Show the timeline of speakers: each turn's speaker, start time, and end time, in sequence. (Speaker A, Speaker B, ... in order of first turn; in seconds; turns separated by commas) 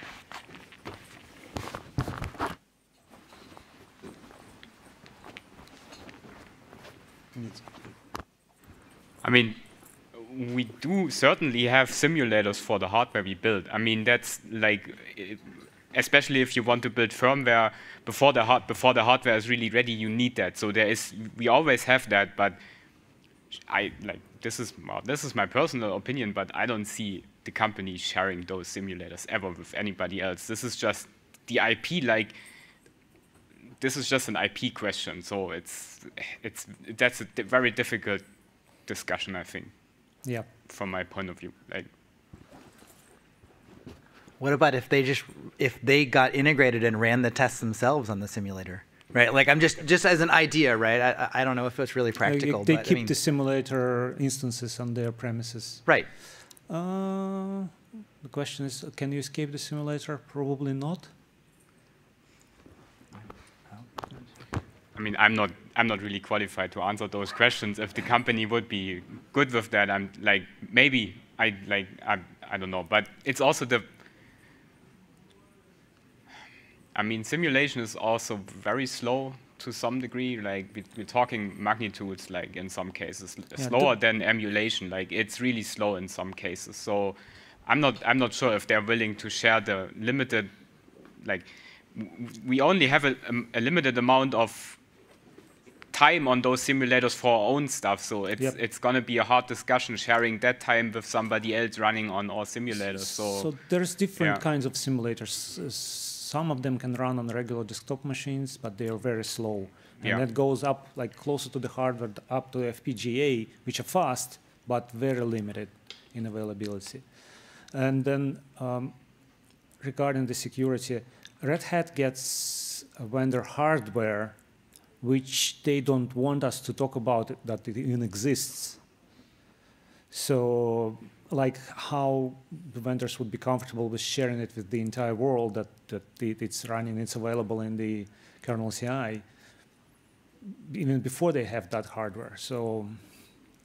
Speaker A: 9.2-9.6, Speaker A: 10.1-22.6, Speaker A: 23.7-32.4, Speaker A: 33.8-38.3, Speaker A: 38.8-39.7, Speaker A: 40.6-41.9, Speaker B: 44.4-53.2, Speaker C: 52.2-61.1, Speaker A: 65.0-73.9, Speaker A: 77.0-90.5, Speaker C: 83.6-84.0, Speaker A: 91.2-94.8, Speaker A: 95.9-103.6, Speaker C: 102.7-119.0, Speaker A: 104.2-104.4, Speaker C: 119.8-124.4, Speaker C: 125.0-128.8, Speaker C: 130.1-139.2, Speaker C: 140.6-143.1